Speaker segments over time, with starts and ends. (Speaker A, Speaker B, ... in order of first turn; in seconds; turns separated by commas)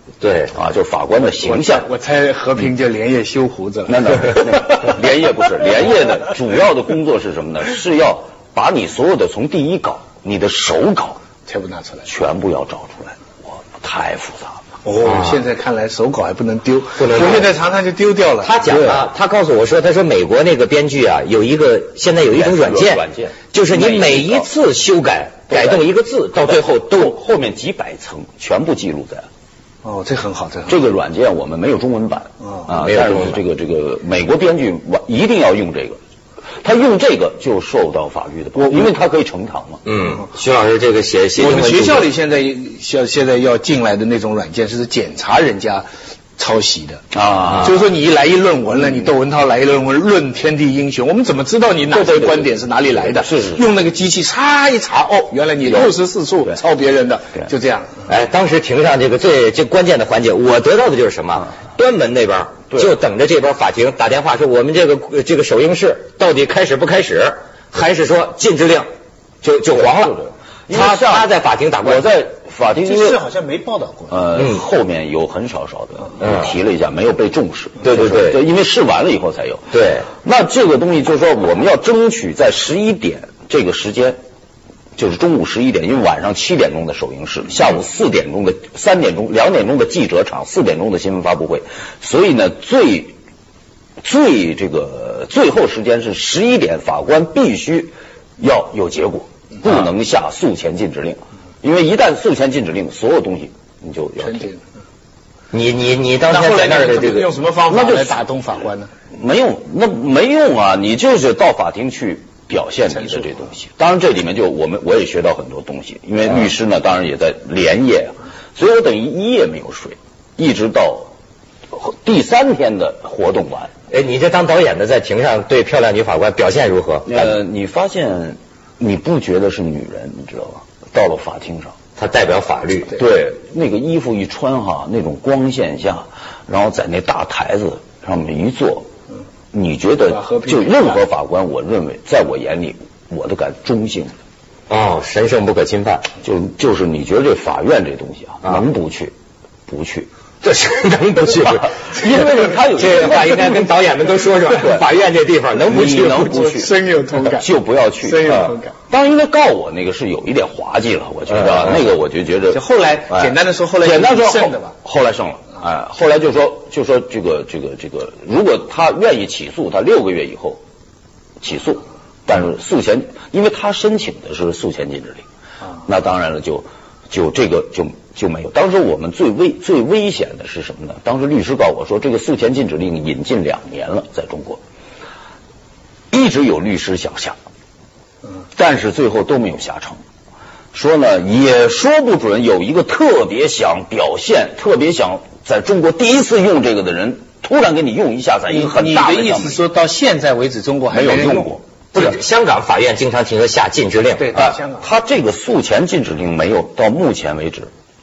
Speaker A: 0.2-0.5, Speaker B: 0.5-1.9, Speaker C: 1.2-4.9, Speaker B: 3.9-11.2, Speaker C: 11.4-12.1, Speaker B: 12.1-14.6, Speaker C: 14.8-18.8, Speaker A: 15.0-15.4, Speaker A: 17.0-17.5, Speaker A: 18.4-27.1, Speaker B: 18.7-19.0, Speaker B: 22.2-24.5, Speaker B: 25.5-29.3, Speaker C: 29.8-30.8, Speaker B: 30.7-36.0, Speaker C: 32.4-32.7, Speaker A: 32.7-33.4, Speaker B: 36.6-39.8, Speaker A: 39.8-42.1, Speaker C: 41.4-47.0, Speaker B: 47.1-47.8, Speaker C: 47.5-58.0, Speaker B: 51.9-53.6, Speaker B: 55.6-56.0, Speaker A: 58.1-68.9, Speaker A: 69.4-72.1, Speaker B: 69.7-71.3, Speaker B: 71.8-73.2, Speaker C: 72.7-74.3, Speaker B: 74.1-84.2, Speaker A: 74.3-74.6, Speaker A: 76.2-76.5, Speaker A: 77.8-78.4, Speaker A: 79.7-80.1, Speaker B: 85.0-93.1, Speaker B: 94.0-104.5, Speaker C: 104.2-104.6, Speaker A: 105.5-107.3, Speaker C: 106.2-108.9, Speaker B: 107.7-108.2, Speaker B: 109.1-121.1, Speaker C: 112.9-113.5, Speaker B: 121.7-123.7, Speaker A: 123.9-127.3, Speaker B: 127.0-131.7, Speaker A: 132.0-132.9, Speaker B: 132.9-138.9, Speaker B: 139.5-144.1, Speaker C: 140.1-141.0, Speaker A: 144.7-146.1, Speaker B: 146.2-149.1, Speaker B: 149.7-150.1, Speaker A: 150.4-156.5, Speaker B: 151.6-153.7, Speaker B: 154.6-154.9, Speaker B: 155.7-170.6, Speaker C: 156.3-157.5, Speaker C: 158.0-158.7, Speaker A: 161.3-161.7, Speaker C: 162.5-164.8, Speaker B: 171.4-175.2, Speaker B: 175.8-184.6, Speaker B: 186.1-187.4, Speaker B: 188.5-190.0, Speaker B: 190.7-199.6, Speaker C: 198.5-201.6, Speaker B: 200.9-201.6, Speaker A: 201.9-204.3, Speaker C: 204.2-204.9, Speaker B: 204.3-207.7